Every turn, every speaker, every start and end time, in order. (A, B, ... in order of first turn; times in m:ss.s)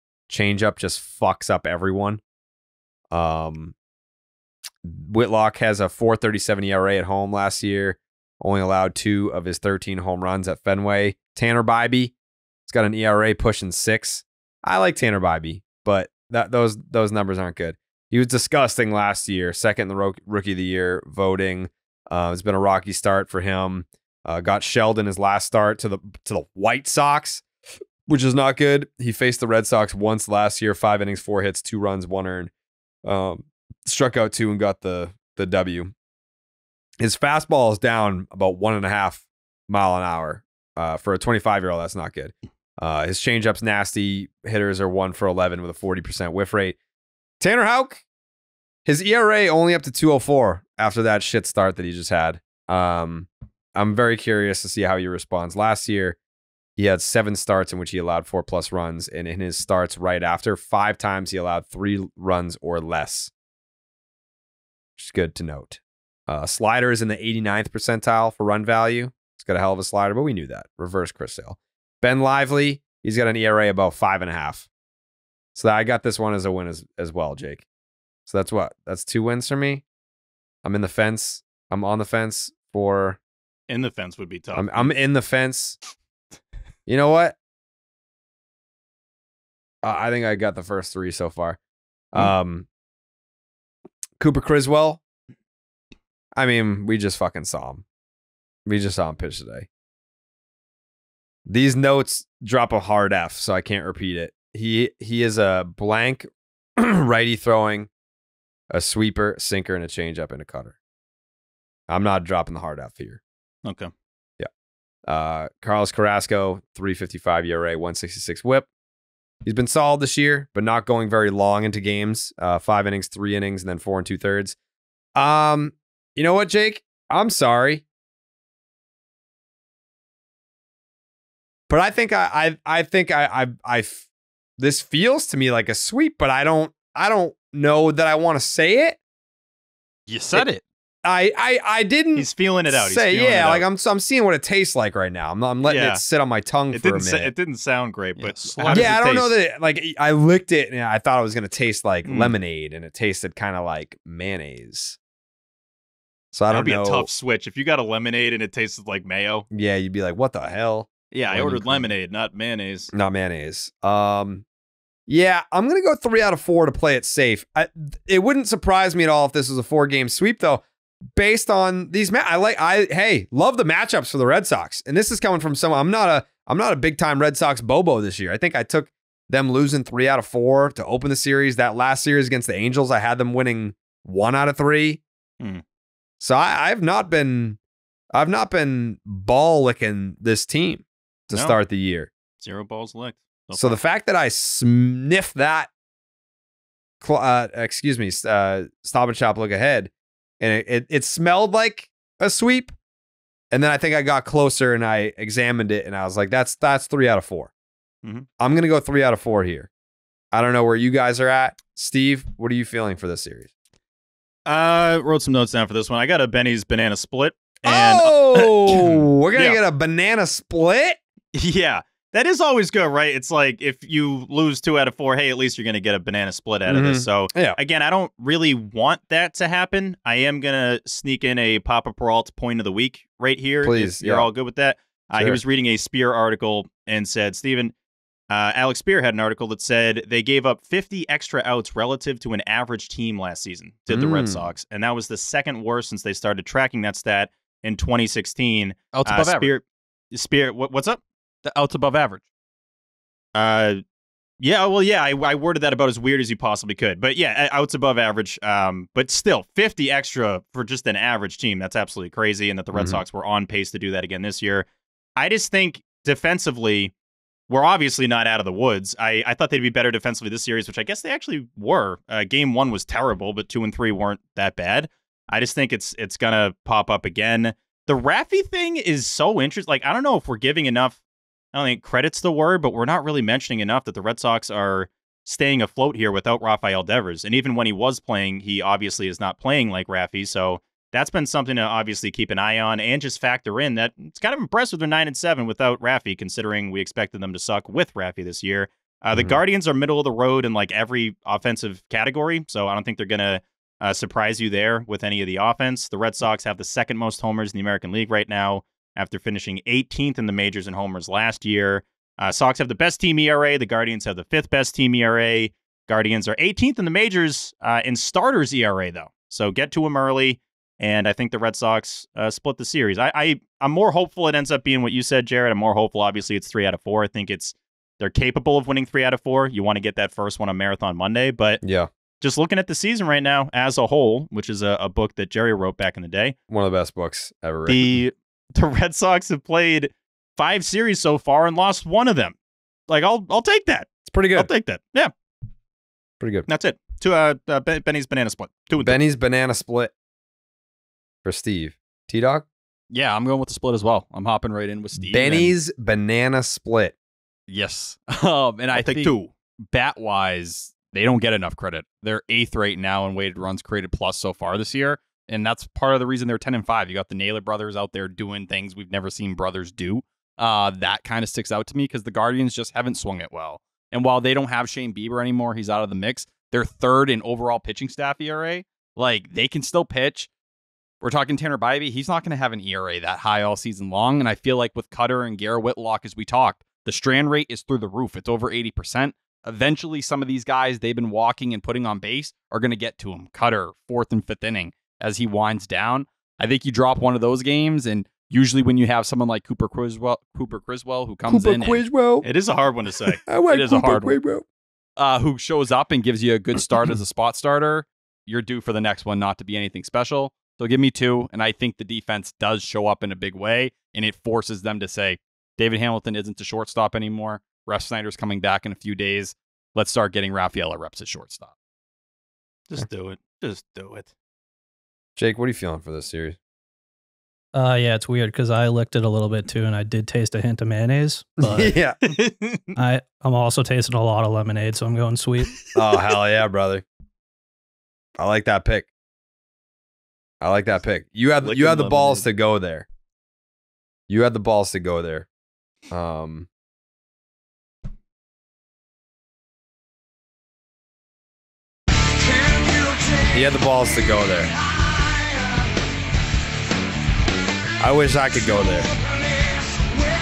0:00.3-0:02.2 A
0:03.1-0:03.7 A
0:04.8-0:12.1 A
0:12.7-0:27.4 A
0:28.0-0:32.5 A
0:33.0-0:35.9 A
0:37.0-0:46.8 A
0:47.4-0:48.0 A
0:48.8-0:56.2 A
0:56.8-1:03.3 A
1:05.0-1:14.7 A
1:15.5-1:17.6 A
1:18.3-1:19.8 A
1:20.6-1:23.2 A
1:23.7-1:24.9 B
1:24.5-1:25.8 A
1:26.9-1:27.4 A
1:29.8-1:31.6 A
1:32.1-1:32.7 A
1:34.2-1:35.0 A
1:36.4-1:37.8 A
1:38.6-1:39.7 A
1:41.5-1:47.9 A
1:48.7-1:50.8 A
1:51.9-1:53.2 A
1:53.6-1:53.9 B
1:55.0-1:58.7 A
1:59.4-2:04.6 A
2:05.2-2:07.8 A
2:11.7-2:14.0 A
2:14.6-2:19.0 A
2:20.1-2:20.6 C
2:21.0-2:27.3 A
2:22.1-2:23.6 B
2:25.6-2:26.0 B
2:26.7-2:29.3 B
2:28.2-2:28.9 C
2:28.7-2:35.0 A
2:32.0-2:32.3 B
2:36.3-2:37.1 A
2:36.5-2:39.4 B
2:39.5-2:41.9 A
2:41.1-2:42.9 B
2:42.9-2:44.4 A
2:45.1-3:05.0 A
3:06.2-3:07.6 A
3:08.1-3:12.1 A
3:11.3-3:11.6 B
3:12.4-3:13.8 B
3:13.6-3:15.7 A
3:17.0-3:22.7 A
3:23.5-3:27.5 A
3:28.4-3:29.7 A
3:30.3-3:33.5 A
3:34.5-3:39.6 B
3:37.6-3:41.0 A
3:41.3-3:57.7 B
3:46.7-3:47.6 A
3:53.6-3:54.3 A
3:55.1-3:55.4 A
3:58.3-4:11.0 B
4:03.9-4:04.4 A
4:08.9-4:09.5 C
4:11.4-4:12.2 C
4:13.3-4:13.8 B
4:14.4-4:26.9 B
4:22.7-4:23.0 A
4:27.5-4:41.0 B
4:41.5-5:31.6 B
5:31.6-5:31.9 A
5:32.2-5:36.4 B
5:36.5-5:38.0 A
5:37.7-5:42.4 B
5:42.9-5:45.1 B
5:44.0-5:44.5 A
5:46.2-5:46.5 A
5:46.5-5:49.0 B
5:48.8-5:49.9 A
5:51.2-5:52.4 A
5:52.9-5:55.5 C
5:55.0-5:56.9 A
5:57.5-5:59.1 C
5:58.7-5:59.3 B
5:59.7-6:20.3 C
6:21.0-6:41.8 C
6:41.3-6:42.2 A
6:42.2-6:43.2 B
6:43.3-6:44.4 A
6:43.5-6:44.2 C
6:45.0-7:01.5 C
7:02.7-7:04.1 B
7:05.2-7:06.4 A
7:07.5-7:11.7 D
7:11.4-7:12.0 A
7:12.0-7:12.7 B
7:12.8-7:15.6 D
7:15.7-7:16.8 A
7:18.2-7:18.9 A
7:20.4-7:22.9 A
7:21.4-7:22.2 B
7:24.1-7:25.3 A
7:25.9-7:26.5 A
7:33.3-7:34.5 A
7:37.8-7:38.9 A